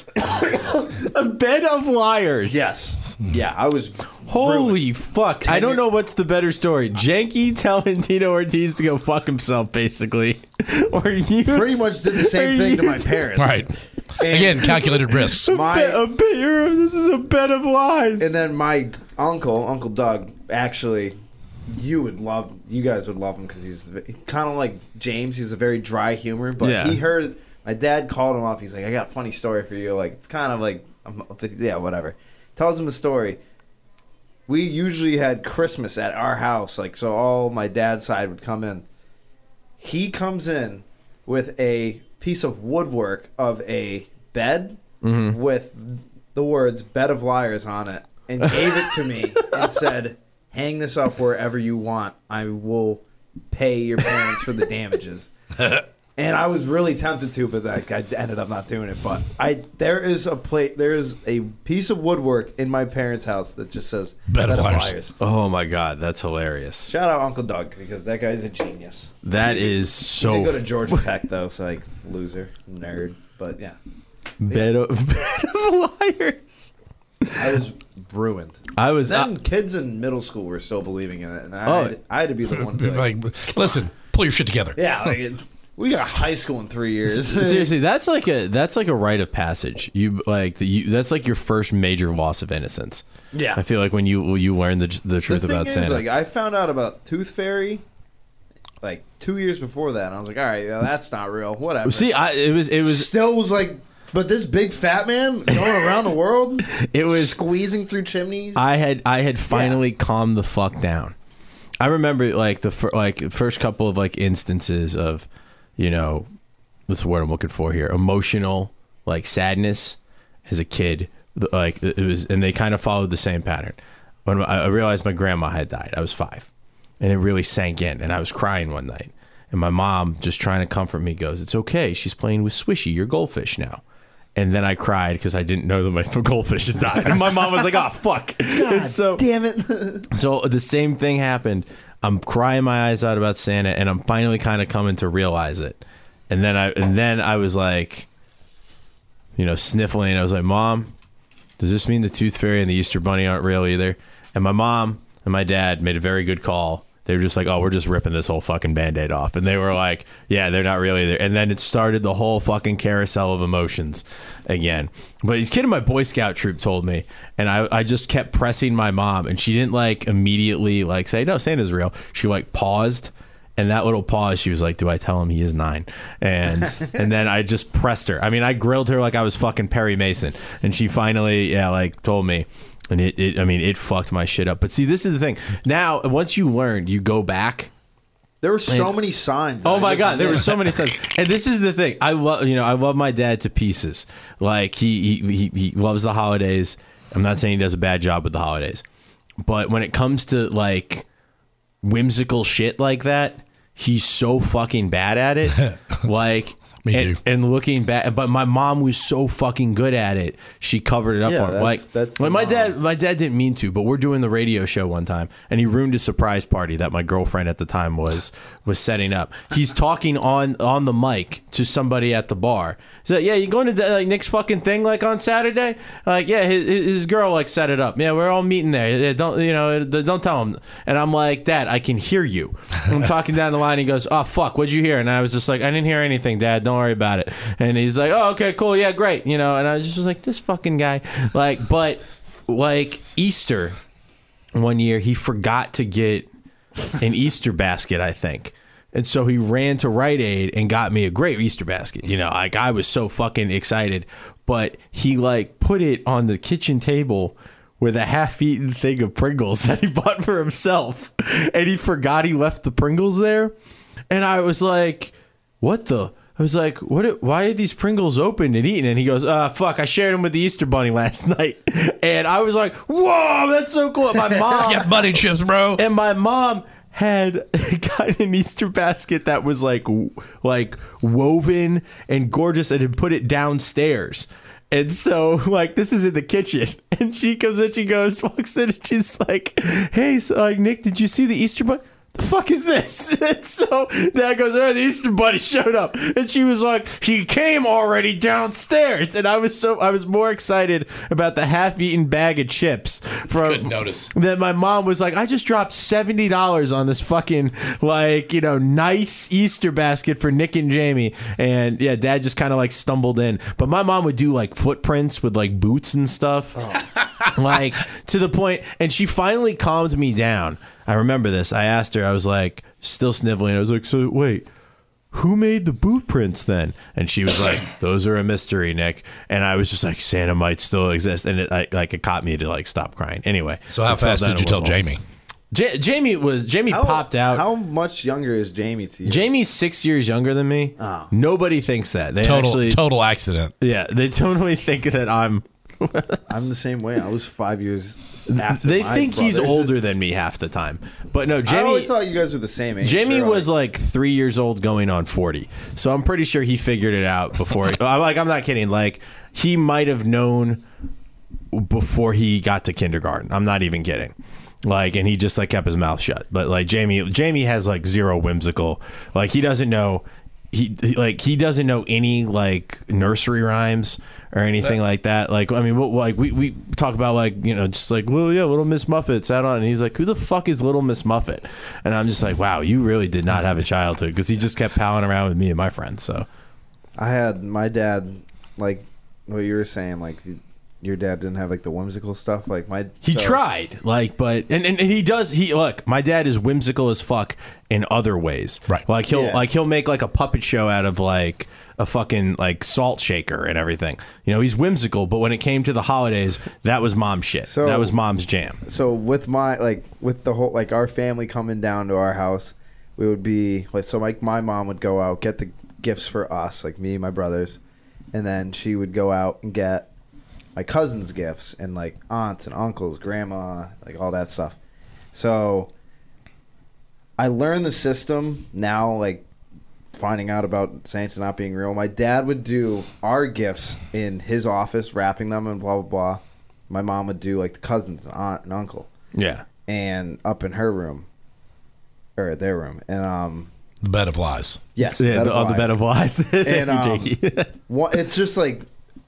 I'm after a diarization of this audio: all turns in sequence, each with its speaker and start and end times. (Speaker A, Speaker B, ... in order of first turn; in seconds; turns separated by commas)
Speaker A: 0.2-2.6, Speaker B: 2.5-4.8, Speaker A: 4.3-13.3, Speaker B: 5.4-5.8, Speaker B: 11.4-13.7, Speaker C: 13.4-15.5, Speaker B: 14.2-16.0, Speaker A: 15.1-18.3, Speaker B: 18.2-21.2, Speaker B: 21.7-33.4, Speaker A: 26.6-27.0, Speaker B: 34.5-38.9, Speaker B: 39.8-55.3, Speaker A: 45.0-45.4, Speaker B: 56.2-65.1, Speaker C: 64.3-65.0, Speaker A: 65.2-66.9, Speaker B: 66.9-73.8, Speaker A: 69.2-71.0, Speaker A: 74.4-77.5, Speaker B: 77.3-83.8, Speaker A: 78.8-79.3, Speaker A: 81.7-82.0, Speaker C: 82.5-85.2, Speaker B: 84.8-87.7, Speaker A: 87.1-93.0, Speaker B: 93.3-93.6, Speaker A: 93.5-96.0, Speaker B: 95.3-97.8, Speaker B: 98.8-102.2, Speaker A: 101.8-103.1, Speaker B: 102.8-108.6, Speaker A: 106.7-107.4, Speaker A: 108.5-111.2, Speaker B: 109.5-109.8, Speaker A: 111.8-115.3, Speaker A: 115.8-116.3, Speaker A: 116.9-126.5, Speaker A: 127.0-133.8, Speaker A: 134.4-139.2, Speaker B: 138.5-140.1, Speaker A: 140.1-148.1, Speaker A: 149.4-150.9, Speaker A: 151.6-187.7, Speaker B: 188.4-190.6, Speaker A: 188.7-188.9, Speaker A: 189.6-198.8, Speaker A: 199.4-201.1, Speaker A: 201.8-243.8, Speaker C: 205.6-206.0, Speaker C: 206.8-207.2, Speaker B: 211.2-212.7, Speaker A: 244.6-246.3, Speaker A: 247.0-263.6, Speaker A: 264.1-275.0, Speaker B: 274.3-274.7, Speaker C: 274.6-275.8, Speaker A: 275.8-324.4, Speaker C: 303.3-304.1, Speaker A: 325.1-334.8, Speaker C: 333.7-335.0, Speaker A: 335.5-337.4, Speaker B: 336.7-339.3, Speaker A: 339.1-342.8, Speaker B: 340.8-341.1, Speaker C: 342.2-343.5, Speaker A: 343.6-346.2, Speaker B: 346.3-349.7, Speaker A: 348.3-351.9, Speaker B: 351.4-353.5, Speaker A: 352.8-360.6, Speaker A: 361.5-386.3, Speaker B: 387.0-393.4, Speaker A: 393.0-408.6, Speaker B: 399.1-399.4, Speaker B: 407.5-407.9, Speaker B: 408.6-417.6, Speaker B: 418.1-419.9, Speaker B: 420.6-424.6, Speaker B: 425.1-425.7, Speaker B: 427.2-429.2, Speaker B: 429.9-438.9, Speaker A: 439.1-439.4, Speaker B: 439.7-441.1, Speaker B: 442.2-443.5, Speaker C: 443.8-444.6, Speaker B: 444.7-445.8, Speaker A: 444.9-447.5, Speaker B: 446.4-447.1, Speaker B: 447.7-448.7